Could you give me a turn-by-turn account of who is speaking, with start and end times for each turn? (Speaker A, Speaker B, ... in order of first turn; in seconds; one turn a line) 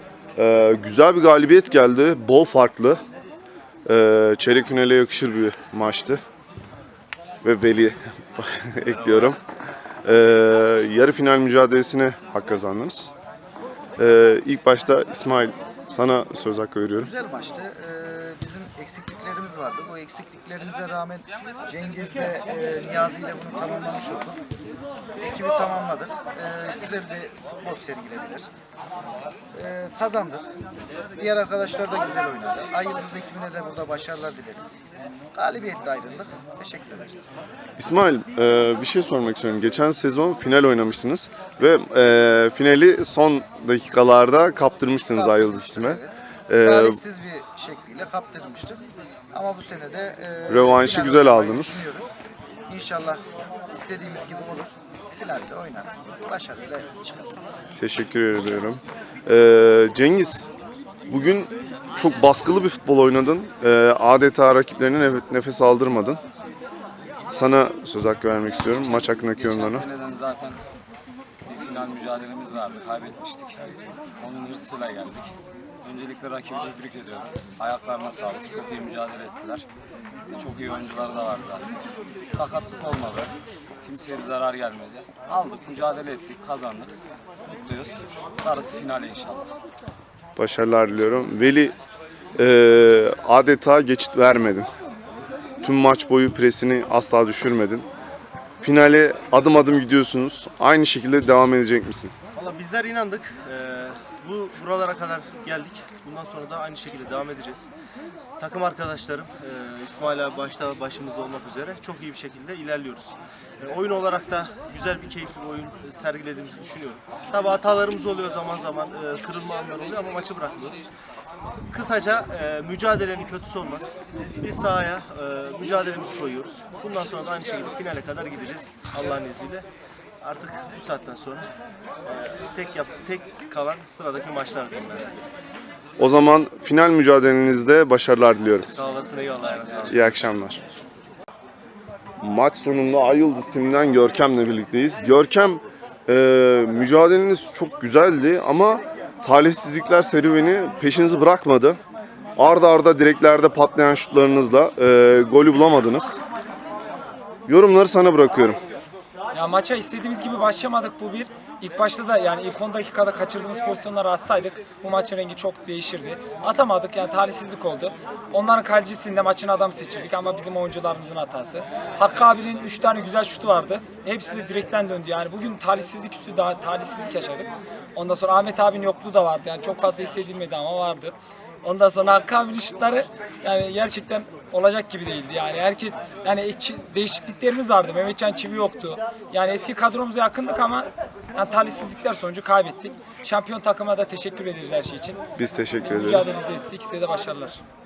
Speaker A: 0.3-3.0
Speaker A: 3.8-6.2
Speaker A: 7.4-9.4
Speaker A: 10.0-13.1
Speaker A: 14.0-17.1
Speaker B: 17.0-24.4
Speaker B: 25.2-28.5
Speaker B: 29.5-30.5
Speaker B: 31.1-34.6
Speaker B: 35.3-37.2
Speaker A: 37.8-47.0
Speaker B: 45.1-52.1
Speaker A: 50.5-51.8
Speaker B: 52.7-57.4
Speaker A: 57.8-60.5
Speaker A: 61.1-66.2
Speaker A: 67.3-69.9
Speaker C: 68.7-70.6
Speaker C: 71.4-79.7
Speaker C: 80.3-81.7
Speaker C: 82.3-89.5
Speaker A: 90.3-91.8
Speaker A: 92.3-94.7
Speaker A: 95.6-97.9
Speaker A: 98.6-102.1
Speaker D: 102.3-107.7
Speaker D: 108.4-120.9
Speaker D: 121.7-129.7
Speaker D: 130.2-131.5
Speaker D: 132.0-135.3
Speaker A: 136.0-138.7
Speaker D: 138.7-140.4
Speaker A: 139.8-140.6
Speaker A: 142.2-151.8
Speaker A: 152.3-156.2
Speaker A: 157.4-158.6
Speaker E: 159.3-195.2
Speaker A: 195.4-196.4
Speaker E: 195.8-197.6